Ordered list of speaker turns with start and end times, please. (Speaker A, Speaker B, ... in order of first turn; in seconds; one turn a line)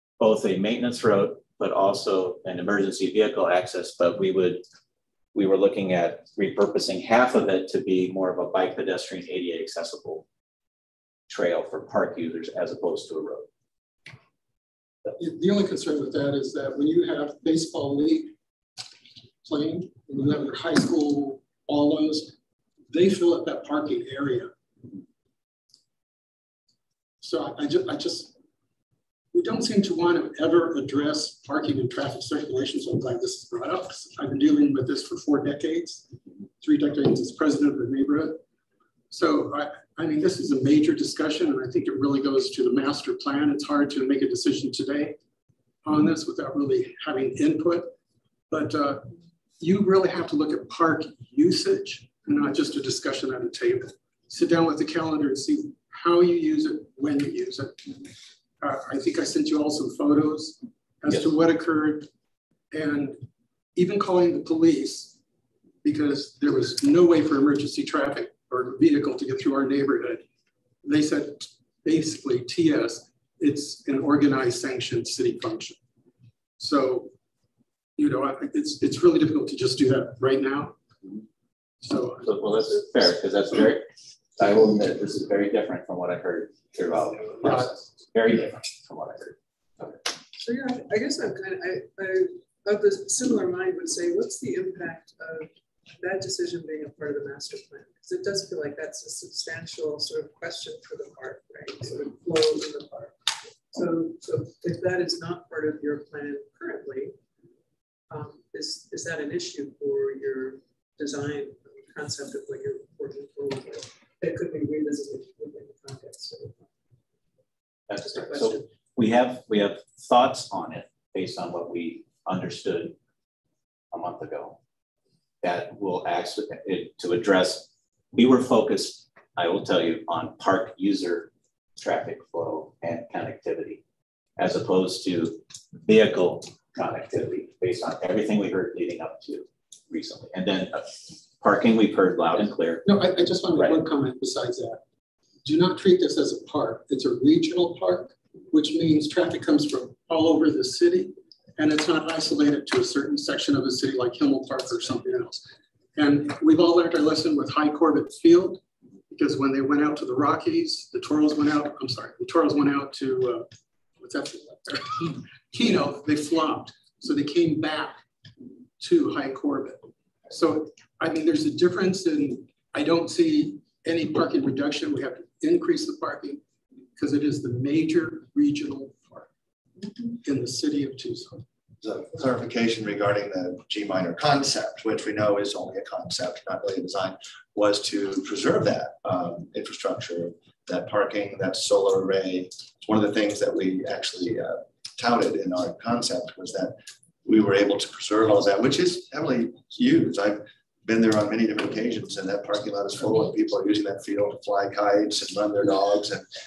Speaker A: 0.2-4.6
Speaker A: 5.3-10.2
Speaker A: 11.3-13.5
Speaker B: 15.2-18.3
Speaker B: 19.4-22.3
Speaker B: 22.9-24.5
Speaker B: 27.2-28.3
Speaker B: 29.3-36.0
Speaker B: 36.6-38.4
Speaker B: 39.1-45.2
Speaker B: 45.8-47.9
Speaker B: 48.5-49.1
Speaker B: 49.6-57.9
Speaker B: 58.6-62.1
Speaker B: 62.7-63.2
Speaker B: 63.7-65.1
Speaker B: 65.8-70.2
Speaker B: 70.8-75.8
Speaker B: 76.6-77.1
Speaker B: 78.0-80.7
Speaker B: 81.8-82.5
Speaker A: 82.2-83.8
Speaker A: 84.4-89.3
Speaker C: 90.3-103.1
Speaker C: 103.7-107.1
Speaker C: 108.1-116.6
Speaker A: 117.9-122.9
Speaker C: 118.0-118.7
Speaker A: 123.9-124.6
Speaker A: 125.4-133.8
Speaker A: 134.4-142.8
Speaker B: 142.8-144.8
Speaker A: 143.5-143.8
Speaker B: 145.4-163.4
Speaker B: 164.0-168.0
Speaker B: 168.8-176.4
Speaker B: 176.9-179.3
Speaker B: 180.2-181.4
Speaker D: 181.8-206.3